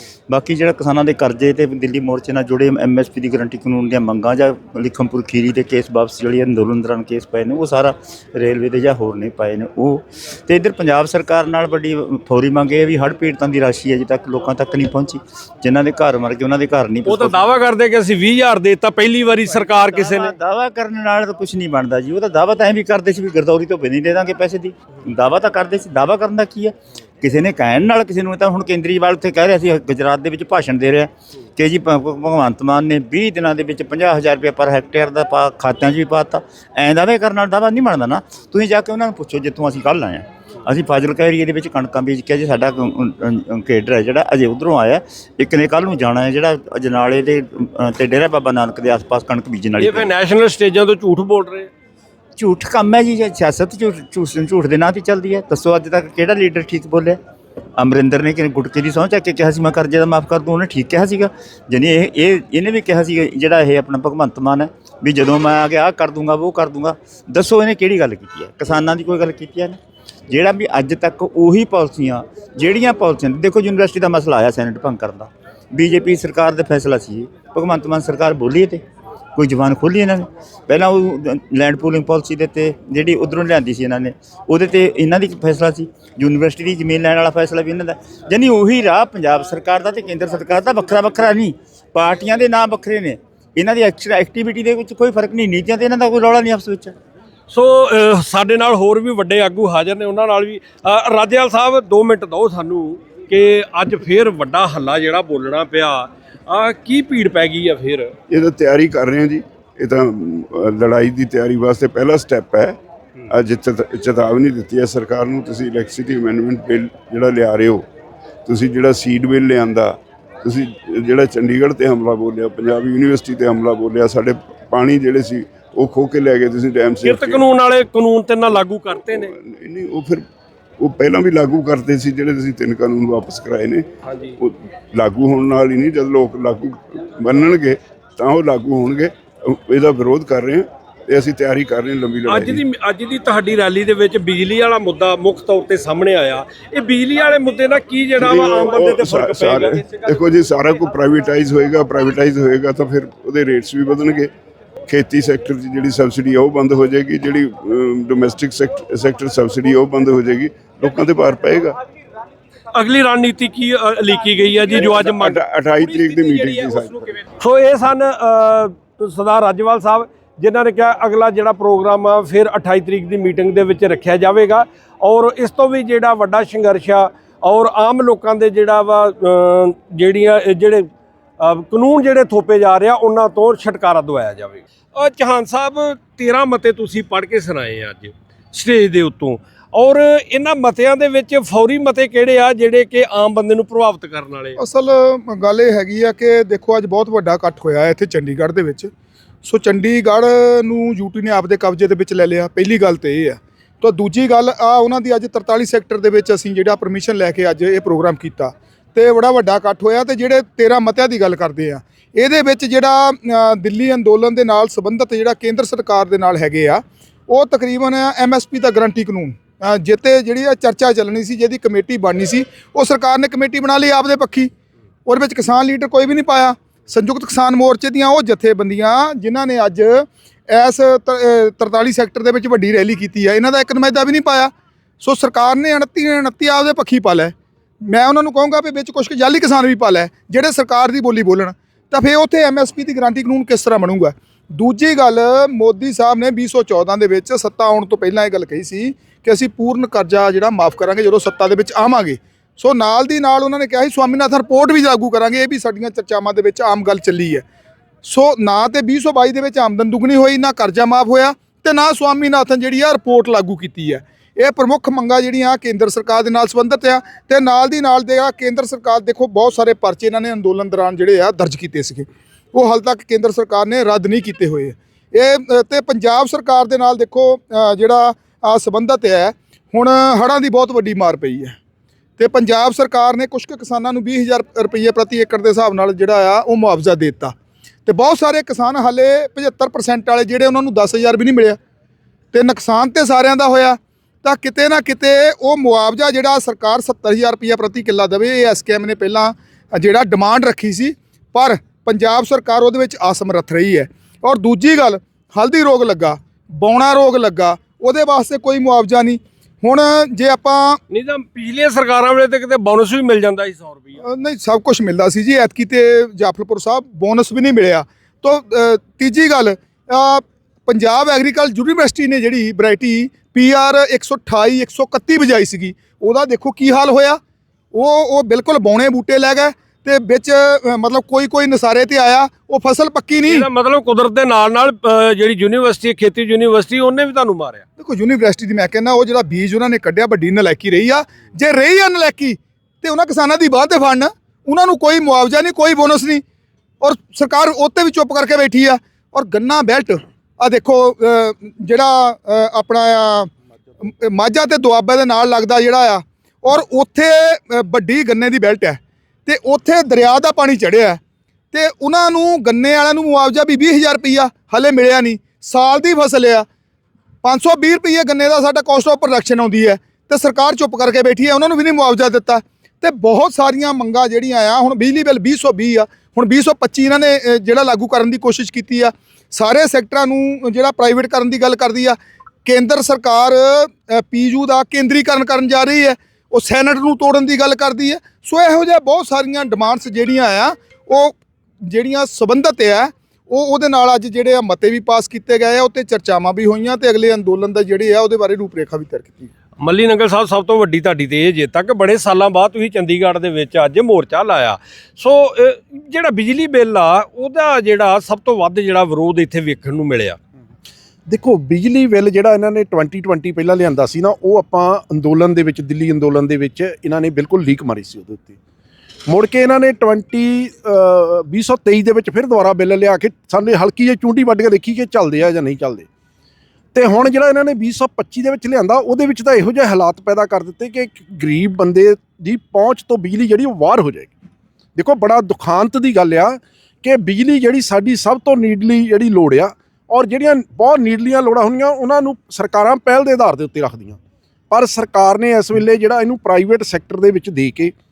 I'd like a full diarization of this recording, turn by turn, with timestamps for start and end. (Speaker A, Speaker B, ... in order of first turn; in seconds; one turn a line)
Speaker A: 0.3-17.5
Speaker B: 17.0-20.3
Speaker A: 19.5-50.1
Speaker B: 49.8-51.7
Speaker A: 52.4-57.2
Speaker A: 57.8-78.8
Speaker A: 79.3-96.9
Speaker B: 97.5-108.1
Speaker C: 108.3-112.8
Speaker C: 113.3-117.8
Speaker C: 118.4-127.4
Speaker B: 127.0-129.3
Speaker C: 129.2-130.2
Speaker C: 130.8-133.8
Speaker B: 134.0-134.4
Speaker C: 134.4-142.6
Speaker B: 142.3-149.8
Speaker C: 148.2-154.3
Speaker C: 154.9-161.8
Speaker B: 162.7-180.9
Speaker C: 164.7-167.1
Speaker B: 181.4-194.6
Speaker D: 194.6-198.9
Speaker D: 199.4-224.5
Speaker D: 225.1-237.3
Speaker D: 237.8-257.4
Speaker D: 258.0-281.5
Speaker D: 282.2-287.3
Speaker D: 287.9-291.6
Speaker D: 292.3-310.8
Speaker B: 310.9-314.0
Speaker D: 314.0-327.2
Speaker D: 327.7-333.5
Speaker B: 333.3-337.6
Speaker D: 337.8-346.2
Speaker D: 346.8-353.3
Speaker D: 353.8-361.0
Speaker D: 361.5-366.4
Speaker D: 367.2-391.1
Speaker D: 391.6-399.3
Speaker B: 399.6-410.2
Speaker E: 411.1-418.4
Speaker E: 419.1-425.9
Speaker E: 426.7-434.1
Speaker E: 434.8-444.0
Speaker E: 444.5-447.7